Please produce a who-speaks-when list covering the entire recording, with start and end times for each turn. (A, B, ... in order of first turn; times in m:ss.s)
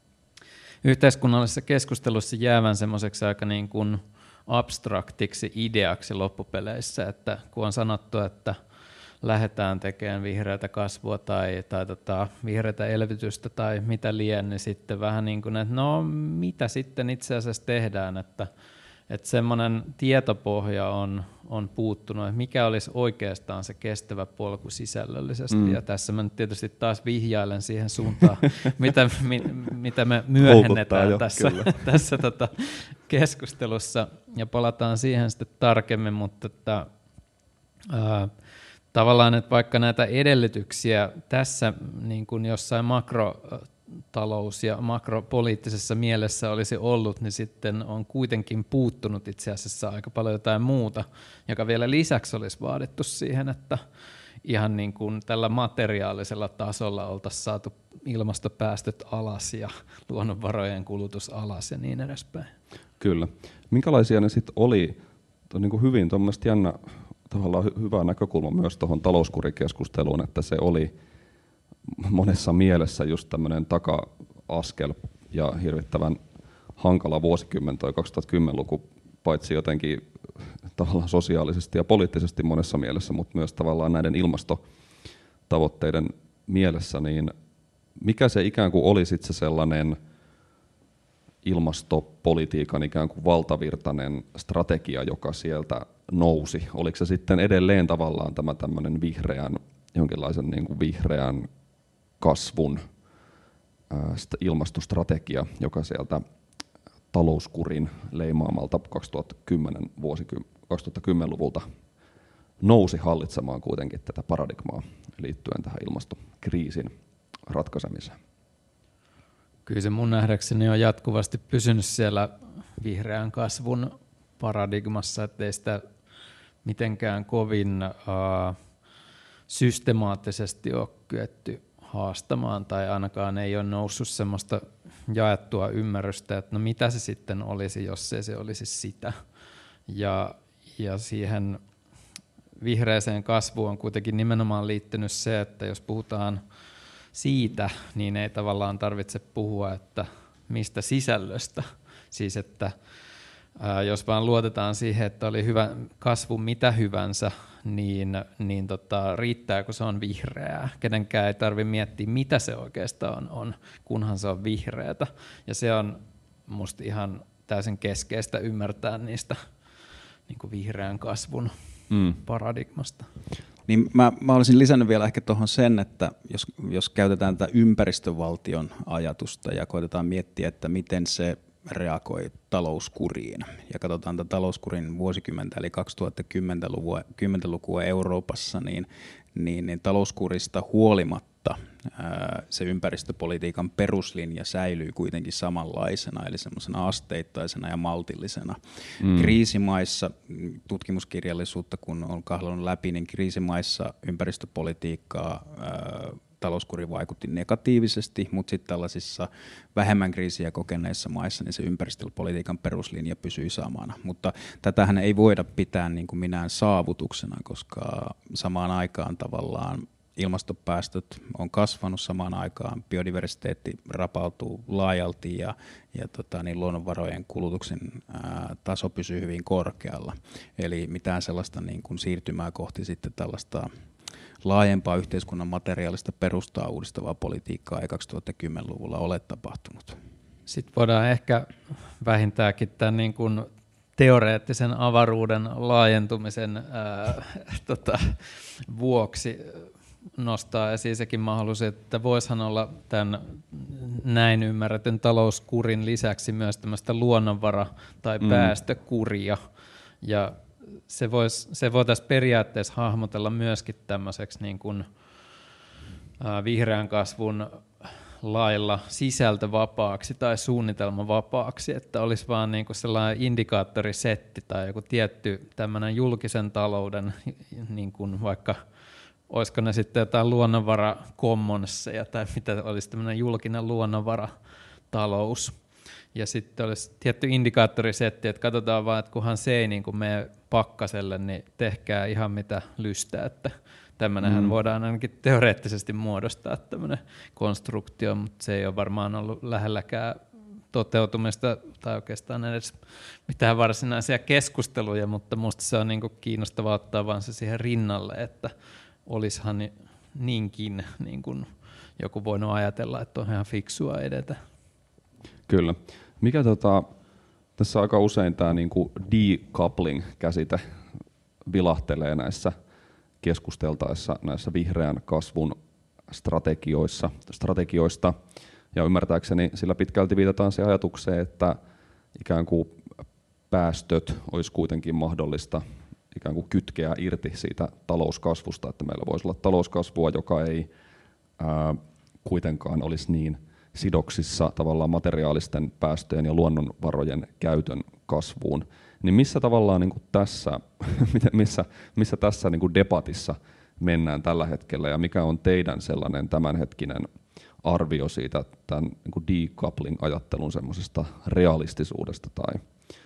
0:00.8-0:08.6 A
0:09.2-0:18.5 A
0:19.1-0:36.9 A
0:30.4-0:31.8 B
0:37.9-0:38.3 A
0:38.9-0:53.8 A
0:54.4-1:02.5 A
1:03.0-1:05.0 B
1:05.5-1:10.9 B
1:11.9-1:16.2 B
1:16.8-1:24.6 B
1:25.5-1:27.3 B
1:28.0-1:30.0 B
1:31.4-1:41.5 B
1:42.2-1:42.9 B
1:43.9-1:46.2 B
1:47.1-1:51.7 B
1:52.6-1:56.9 B
1:57.5-1:58.2 B
1:59.7-2:05.8 A
2:06.6-2:08.6 A
2:09.5-2:19.2 A
2:19.9-2:21.6 A
2:22.6-2:26.4 A
2:27.1-2:32.7 A
2:33.6-2:49.4 A
2:50.3-2:51.5 A
2:51.9-2:52.2 B
2:52.1-2:53.1 A
2:53.7-3:53.7 C
3:19.0-3:19.3 B
3:54.4-4:00.0 C
4:00.5-4:01.5 A
4:02.0-4:19.4 A
4:18.2-4:18.5 B
4:20.0-4:20.4 A
4:20.9-4:24.9 A
4:26.2-4:38.6 A
4:39.3-4:44.3 A
4:44.9-4:45.6 A
4:46.1-5:00.2 A
4:54.2-4:54.6 B
5:00.7-5:08.5 A
5:09.1-5:11.5 A
5:12.0-5:14.4 A
5:15.5-5:16.9 B
5:17.6-5:20.6 B
5:21.5-5:22.6 B
5:23.2-5:25.6 B
5:26.1-5:28.2 B
5:28.7-5:31.6 B
5:32.2-5:32.9 B
5:33.5-5:40.7 B
5:41.4-5:57.1 B
5:57.6-6:02.6 B